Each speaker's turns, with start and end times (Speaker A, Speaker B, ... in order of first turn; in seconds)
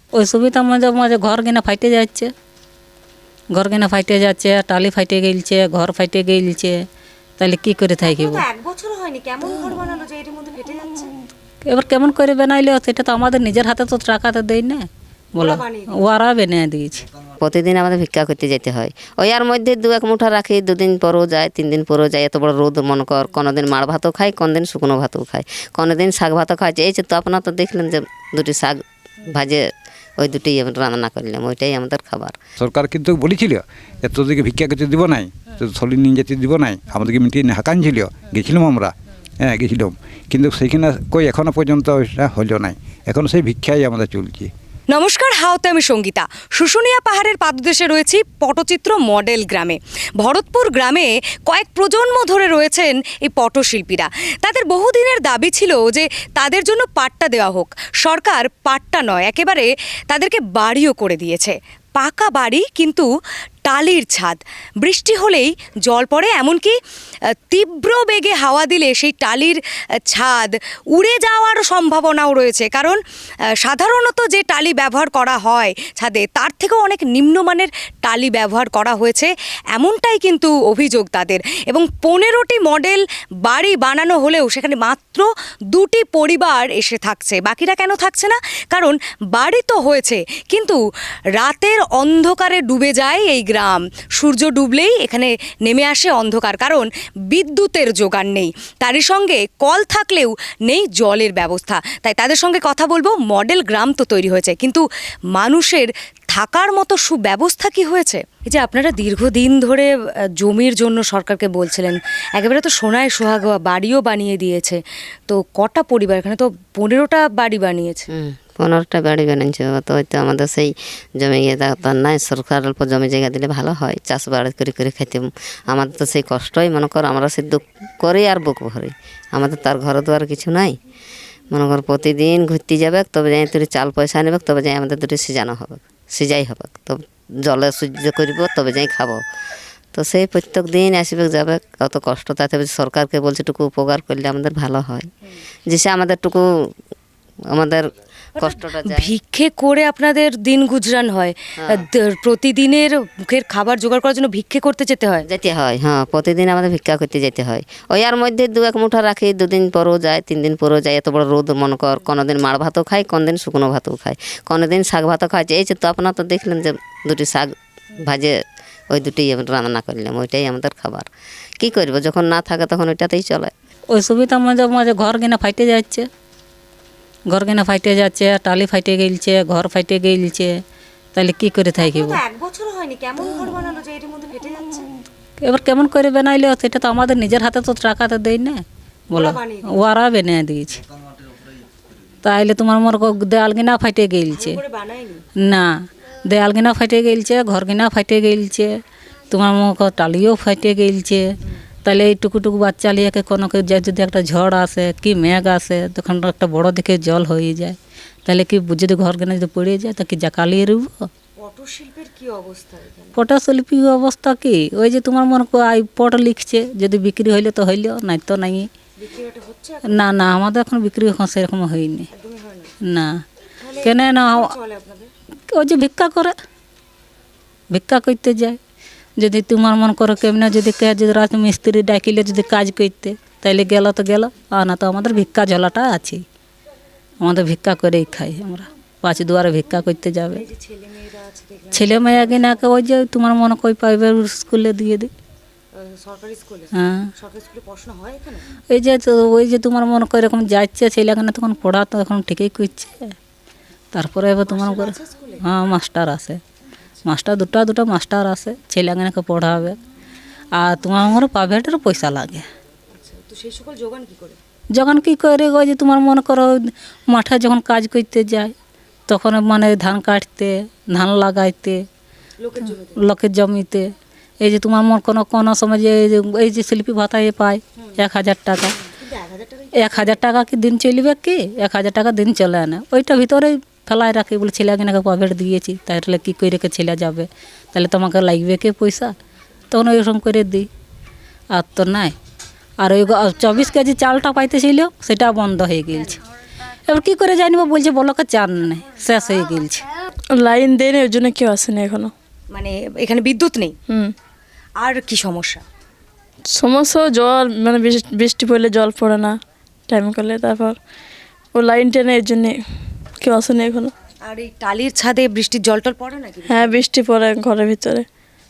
Speaker A: 0.2-2.3, 3.5-6.8, 7.4-8.4, 11.7-17.0, 173.9-176.1, 177.3-180.5, 181.1-182.2, 185.4-190.8, 192.2-194.6, 195.4-195.7, 196.3-198.7, 199.3-201.3, 201.8-211.1, 213.2-218.7, 219.9-222.1, 222.9-223.2, 223.8-224.5, 225.5-226.3, 227.7-228.6, 229.2-236.2, 237.2-240.4, 241.7-245.1, 246.8-247.1, 248.7-253.1, 253.9-256.4, 257.0-259.8, 260.6-262.4, 264.7-268.5, 269.1-271.8, 273.0-278.7, 279.8-289.1, 289.7-290.7, 291.5-292.1, 292.8-296.2, 296.9-299.8
Speaker B: 8.0-11.1, 15.3-16.0, 44.9-63.1, 63.6-66.7, 67.5-73.0, 73.6-90.8, 91.4-104.8, 105.3-118.1, 148.3-155.2, 181.8-184.9, 189.1-189.8, 194.3-195.2, 211.4-213.2, 219.0-220.1, 222.1-222.7, 223.6-225.1, 240.3-242.5, 245.7-248.4, 254.5-255.4, 262.9-264.4, 272.4-273.0, 278.8-280.2, 302.5-303.7, 304.8-305.6, 314.2-316.8
Speaker C: 17.4-32.4, 118.1-130.8, 131.5-139.2, 139.9-145.1, 145.7-146.7, 147.5-147.8, 148.4-149.1, 151.6-151.8, 155.2-171.1, 171.6-173.5
Speaker D: 32.6-33.6, 34.2-44.5
Speaker E: 300.3-302.1, 303.9-304.1, 306.5-310.8, 311.5-312.6, 313.2-313.9, 316.4-318.1